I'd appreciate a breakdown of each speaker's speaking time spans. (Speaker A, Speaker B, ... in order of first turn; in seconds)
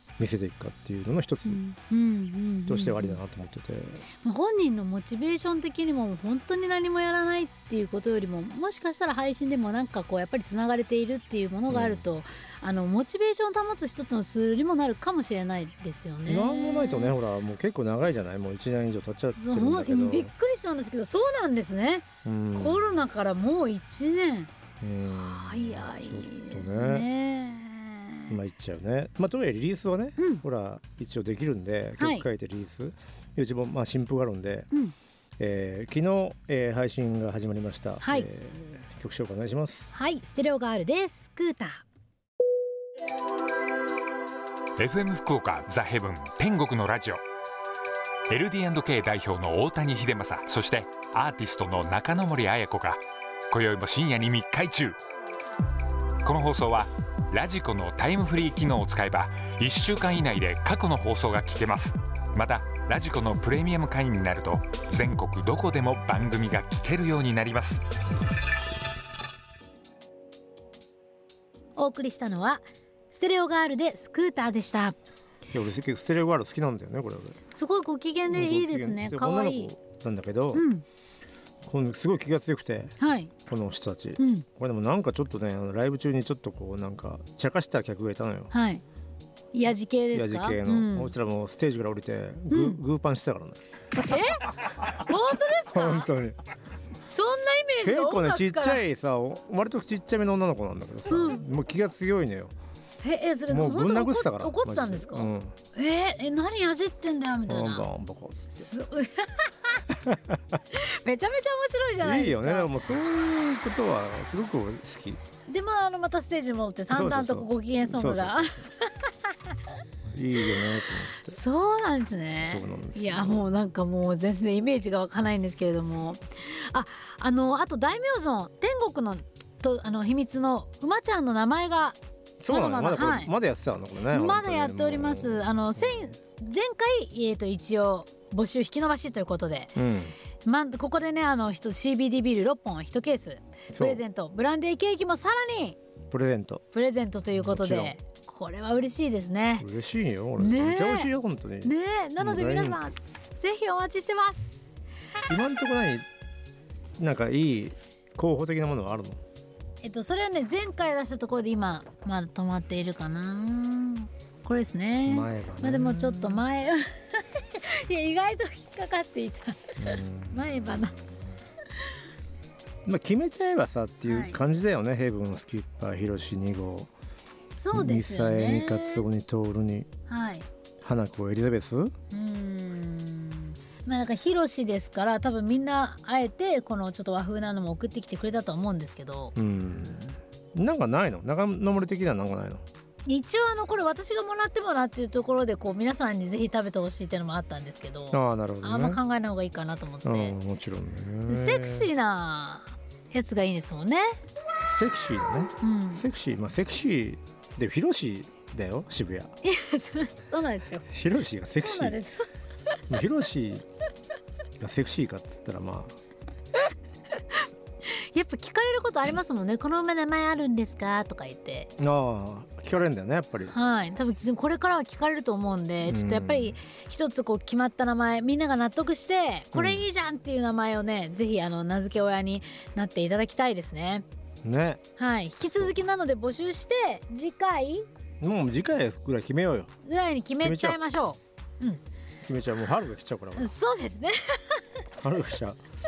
Speaker A: 0.2-1.6, 2.7-4.0, 11.7-12.0, 16.3-20.3, 22.2-22.9, 24.8-27.1, 28.3-34.7, 35.4-39.9, 75.5-77.4, 78.3-80.7, 81.6-88.5, 90.1-93.6, 94.6-96.4, 97.8-102.5, 103.5-105.6, 107.5-108.7, 109.9-110.6, 112.0-115.2, 116.9-118.7, 120.1-121.4, 122.4-123.4, 132.4-136.2, 139.8-140.2, 143.7-144.0, 146.1-146.6, 147.3-147.9, 149.6-152.8, 155.3-156.1, 157.0-159.2, 165.1-166.4, 169.8-171.4, 172.8-176.9, 177.7-179.9, 180.8-181.9, 189.3-192.6, 198.1-199.0, 200.0-201.9, 204.6-209.3, 210.9-212.0, 212.9-213.7, 214.6-216.0, 221.8-223.5, 225.8-226.6, 229.5-229.8, 234.4-234.8, 235.5-235.7, 238.2-239.7, 240.4-240.8, 242.2-243.5, 245.0-245.6
Speaker B: 1.4-3.2, 4.2-17.2, 19.4-24.5, 25.1-28.3, 30.2-30.4, 32.0-32.3, 38.0-38.3, 39.9-41.8, 71.8-75.0, 77.5-79.7, 80.5-80.8, 83.0-83.3, 84.2-84.5, 88.5-88.8, 89.5-91.1, 92.5-92.8, 94.0-96.1, 97.1-98.8, 101.1-101.4, 103.0-107.9, 108.5-109.8, 110.7-112.7, 115.5-119.3, 121.2-132.0, 132.5-133.3, 134.1-139.8, 140.4-145.8, 146.7-149.7, 150.4-151.1, 151.6-154.8, 159.8-171.0, 174.1-174.4, 177.5-179.0, 180.1-180.5, 182.1-189.3, 193.1-200.3, 201.3-204.2, 205.6-206.0, 209.4-210.9, 211.6-212.8, 217.8-221.7, 223.5-234.1, 235.0-237.9, 239.8-241.8, 243.4-244.6
Speaker C: 44.8-47.2, 48.3-55.0, 56.2-67.9